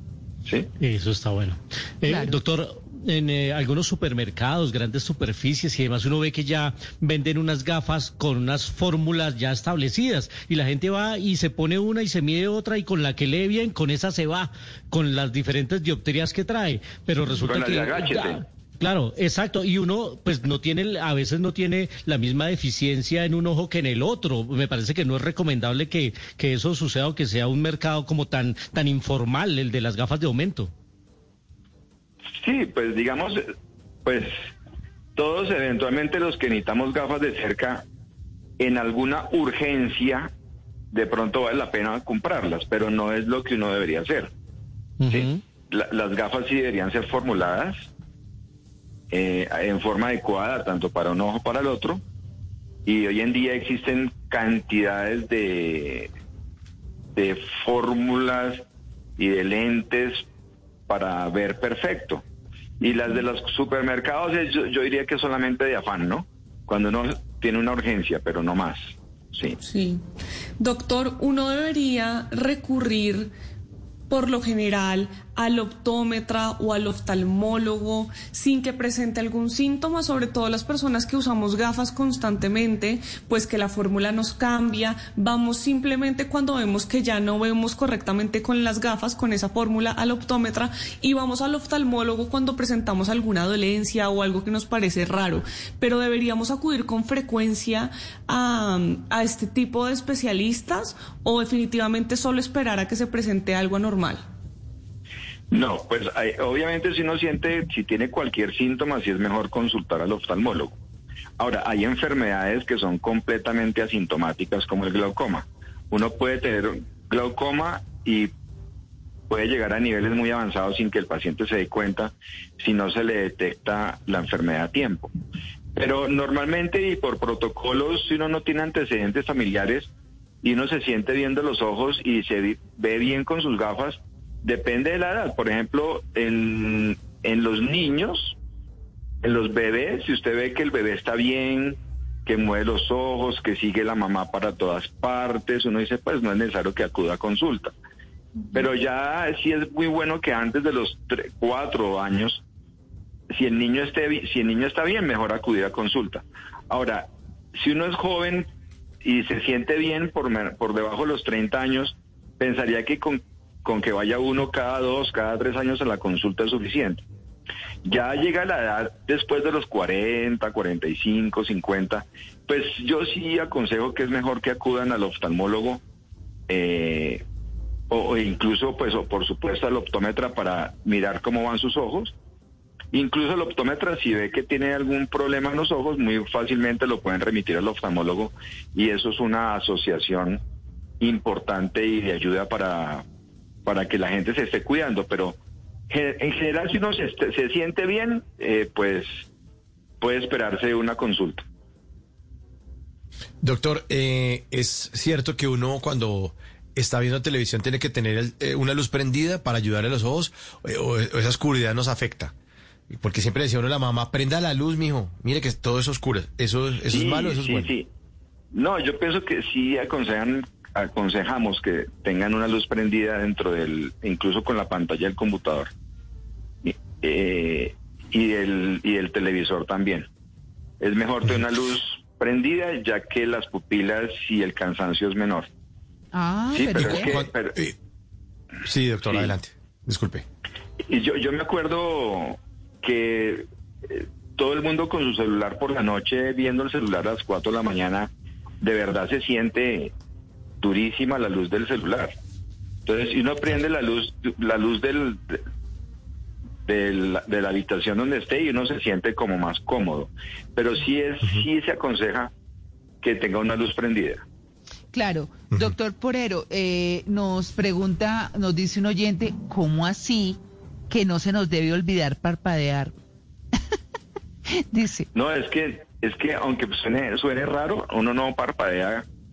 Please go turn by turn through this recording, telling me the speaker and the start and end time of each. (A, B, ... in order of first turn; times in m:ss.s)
0:00.8-0:30.7 A
0:02.1-0:02.4 B
0:17.5-0:18.4 C
0:32.4-0:33.4 C
0:34.1-0:34.3 C
0:35.2-0:37.9 C
0:38.6-0:40.3 C
0:40.9-0:44.3 C
0:45.0-0:45.4 A
0:45.1-0:47.9 C
0:49.1-0:52.0 C
0:52.9-0:56.1 C
0:57.2-0:58.6 C
0:59.2-1:00.3 C
1:00.9-1:02.2 C
1:02.8-1:09.6 C
1:09.6-1:10.0 D
1:10.6-1:13.3 D
1:14.1-1:44.2 D
1:45.5-1:50.8 C
1:51.4-1:58.3 C
1:59.3-2:05.1 C
2:05.8-2:09.9 C
2:10.4-2:18.4 C
2:19.2-2:27.7 C
2:28.5-2:32.4 C
2:33.3-2:38.5 C
2:39.0-2:47.0 C
2:47.8-2:55.8 C
2:56.5-2:57.2 C
2:57.9-3:02.1 C
3:02.9-3:10.4 C
3:11.0-3:13.0 C
3:13.7-3:15.4 C
3:15.9-3:19.2 C
3:20.0-3:21.4 C
3:23.4-3:32.3 E
3:32.9-3:37.7 E
3:36.9-3:37.9 C
3:38.5-3:45.7 C
3:46.6-3:50.1 C
3:50.8-3:55.5 C
3:56.1-3:57.2 B
3:56.5-3:57.6 C
3:56.8-3:57.8 E
3:58.6-4:00.2 E
4:00.9-4:09.9 C
4:10.6-4:12.1 C
4:12.9-4:15.4 C
4:16.7-4:22.3 C
4:23.0-4:24.2 C
4:24.9-4:30.4 B
4:30.9-4:33.0 B
4:34.7-4:35.1 B
4:35.1-4:39.1 C